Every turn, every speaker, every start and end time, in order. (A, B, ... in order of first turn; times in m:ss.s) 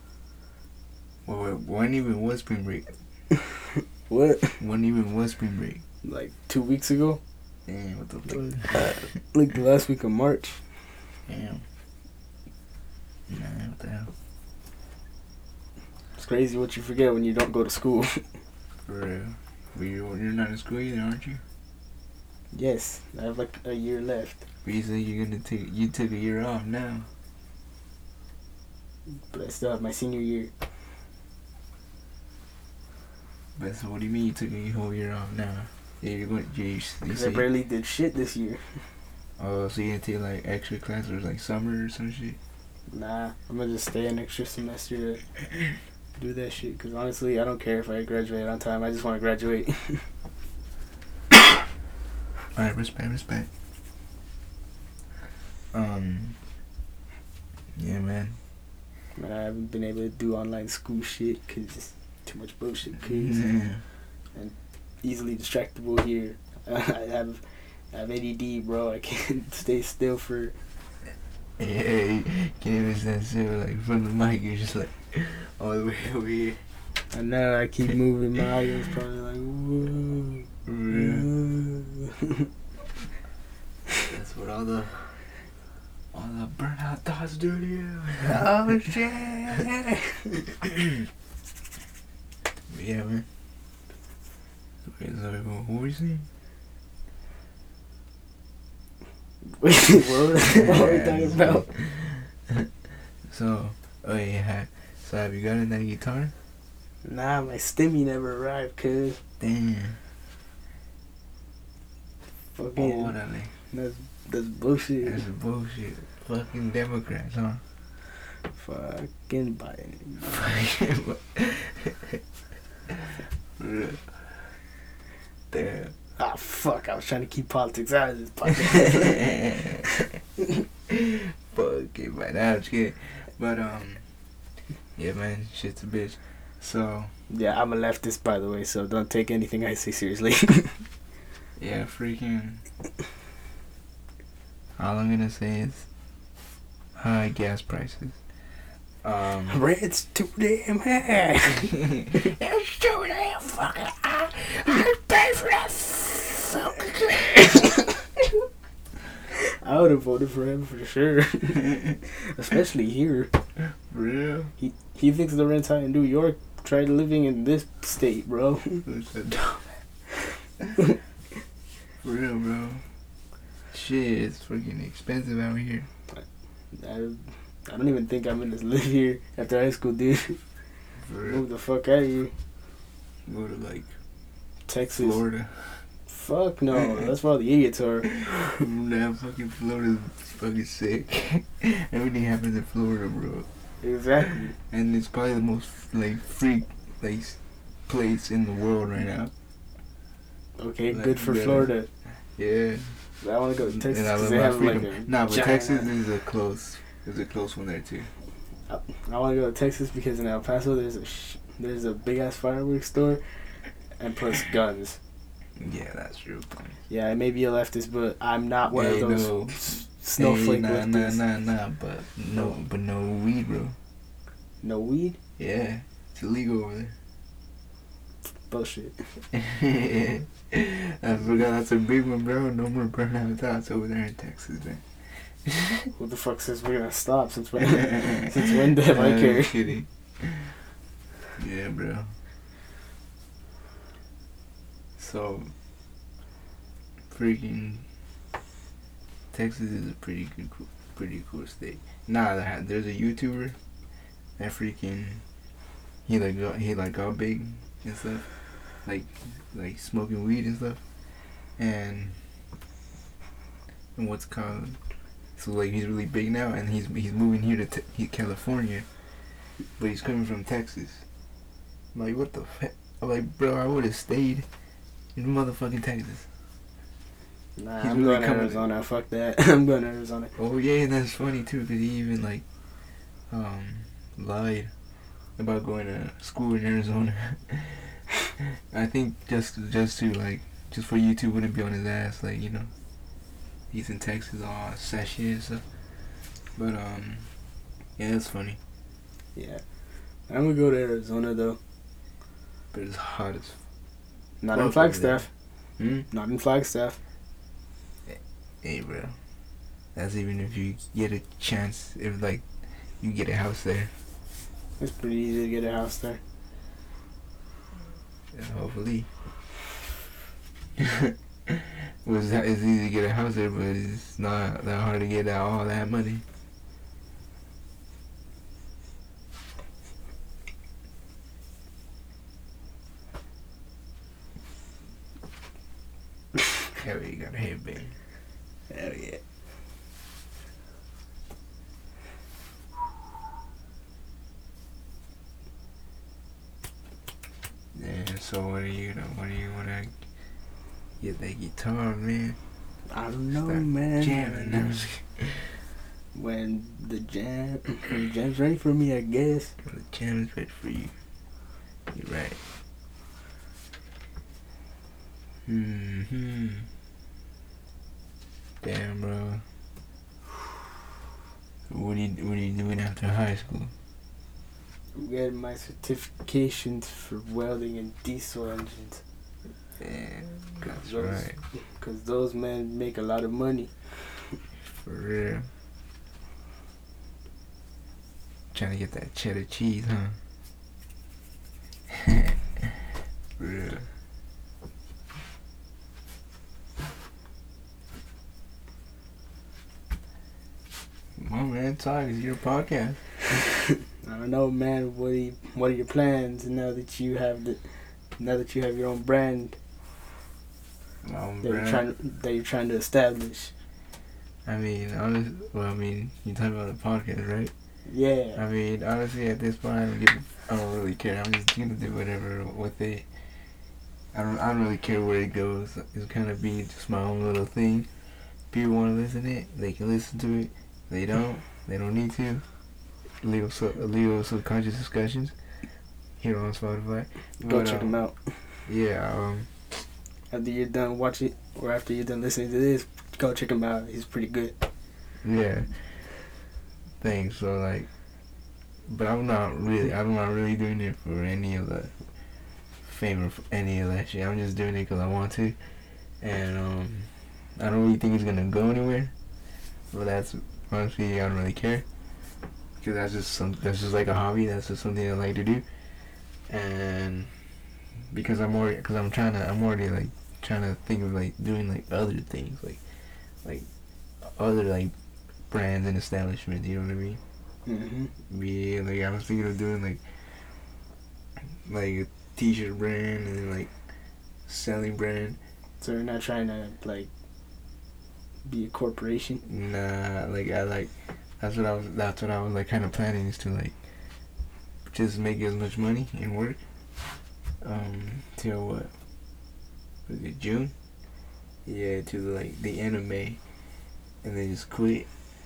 0:01.2-0:03.0 A
0:04.1-0:04.6 B
0:04.6-0:05.8 A
0:06.0-0:07.2 B
0:07.7-0:08.8 A
0:08.7-0:10.6 B
0:11.3-0:11.6 A
0:13.3-0:14.1 A
0:16.2-0:18.4 B
0:18.8-0:21.4 A
0:22.5-0:24.4 B
0:24.6-0:27.1 A
0:29.1-0:30.5 B
0:33.6-0:37.5 A
0:37.1-0:38.9 B
0:39.4-0:42.4 A
0:42.9-0:45.3 B
0:46.2-0:50.1 B
0:52.5-0:53.5 A
0:55.7-0:56.4 A
0:57.7-0:58.4 A
0:59.2-1:03.5 B
1:03.0-1:03.8 A
1:04.4-1:10.6 B
1:11.6-1:16.7 A
1:17.1-1:22.5 B
1:20.7-1:21.3 A
1:24.1-1:25.3 A
1:26.1-1:28.5 A
1:28.2-1:30.4 B
1:32.7-1:33.3 A
1:34.8-1:36.3 A
1:39.5-1:41.7 B
1:40.5-1:42.7 A
1:43.2-1:46.3 A
1:47.0-1:49.2 B
1:49.4-1:50.0 A
1:52.6-1:53.2 B
1:52.8-1:53.5 A
1:53.7-1:55.2 B
1:55.0-1:57.6 A
1:58.5-2:00.4 B
2:00.2-2:02.2 A
2:02.9-2:04.5 A
2:05.5-2:06.0 A
2:06.2-2:10.0 B
2:08.8-2:10.2 A
2:10.9-2:14.0 A
2:15.0-2:17.1 A
2:17.3-2:20.8 B
2:21.6-2:22.6 A
2:24.8-2:25.9 A
2:27.0-2:28.2 A
2:29.0-2:29.6 A
2:29.5-2:32.3 B
2:32.2-2:37.2 A
2:36.3-2:37.9 B
2:39.4-2:43.3 B
2:43.8-2:44.5 A
2:44.6-2:48.9 B
2:48.8-2:49.7 A
2:52.0-2:52.8 A
2:53.7-2:55.9 A
2:56.1-3:00.4 B
3:01.0-3:01.4 A
3:01.2-3:02.4 B
3:03.3-3:03.9 A
3:04.7-3:05.2 B
3:04.9-3:05.8 A
3:06.1-3:08.6 B
3:06.7-3:07.1 A
3:08.3-3:13.5 A
3:13.8-3:14.5 B
3:14.7-3:19.3 A
3:20.6-3:21.9 B
3:20.9-3:21.7 A
3:22.4-3:23.0 A
3:23.2-3:25.9 B
3:23.6-3:28.1 A
3:28.7-3:35.0 B
3:35.6-3:36.8 A
3:36.9-3:41.2 B
3:38.7-3:43.8 A
3:44.6-3:45.2 B
3:45.4-3:47.0 A
3:48.5-3:49.2 B
3:49.3-3:55.9 A
3:55.9-3:59.6 B
3:58.7-4:00.6 A
4:01.4-4:02.1 A
4:05.0-4:05.5 A
4:07.1-4:07.9 A
4:09.3-4:13.6 A
4:14.4-4:15.2 A
4:16.1-4:20.8 A
4:21.6-4:22.2 A
4:24.0-4:24.8 A
4:25.4-4:28.9 A
4:29.8-4:31.0 A
4:31.9-4:34.5 A
4:35.1-4:36.3 A
4:37.6-4:40.3 B
4:37.8-4:38.6 A
4:40.4-4:42.4 A
4:43.3-4:44.7 A
4:45.4-4:52.7 A
4:53.7-4:55.6 A
4:56.6-4:57.3 A
4:58.0-4:58.6 A
4:59.4-4:59.6 B
5:00.3-5:01.6 B
5:02.7-5:03.6 A
5:04.4-5:05.3 B
5:04.5-5:05.2 A
5:05.8-5:06.1 A
5:06.1-5:07.0 B
5:08.1-5:09.2 A
5:10.0-5:12.5 A
5:13.0-5:13.9 A
5:14.8-5:16.2 B
5:18.3-5:19.1 A
5:20.8-5:26.2 A
5:36.7-5:38.0 A
5:38.7-5:39.2 B
5:47.7-5:50.0 A
5:51.0-5:52.4 A
5:52.9-5:54.8 B
5:53.4-5:55.6 A
5:56.1-5:59.6 B
5:59.6-6:00.9 A
6:01.9-6:02.4 A
6:05.4-6:06.7 A
6:08.6-6:09.4 A
6:11.7-6:13.7 A
6:14.9-6:19.0 B
6:19.8-6:21.4 A
6:20.6-6:24.4 B
6:24.6-6:25.5 A
6:28.5-6:30.2 A
6:31.9-6:32.7 A
6:33.4-6:33.9 A
6:41.2-6:43.1 A
6:44.0-6:49.6 B
6:51.0-6:51.8 A
6:51.4-6:53.5 B
6:54.4-6:57.5 A
6:57.9-6:58.4 B
6:58.4-7:03.1 A
7:04.1-7:07.9 A
7:08.5-7:12.4 A
7:13.2-7:15.4 A
7:16.2-7:18.0 A
7:17.4-7:18.5 B
7:18.7-7:19.8 A
7:20.3-7:24.6 B
7:25.2-7:26.1 A
7:27.0-7:27.9 A
7:28.9-7:32.0 A
7:32.8-7:35.6 A
7:36.2-7:39.1 A
7:39.9-7:41.8 A
7:42.8-7:45.6 A
7:46.5-7:47.4 A
7:48.1-7:52.8 A
7:54.2-7:54.9 A
7:55.5-7:57.2 A
7:57.7-7:58.1 B
7:58.3-8:00.0 A
8:01.6-8:03.7 A
8:04.5-8:05.4 A
8:05.8-8:07.1 B
8:08.4-8:09.4 B
8:09.5-8:13.8 A
8:14.9-8:16.6 A
8:17.6-8:18.9 A
8:20.1-8:20.7 A
8:21.7-8:23.4 A
8:24.2-8:25.1 A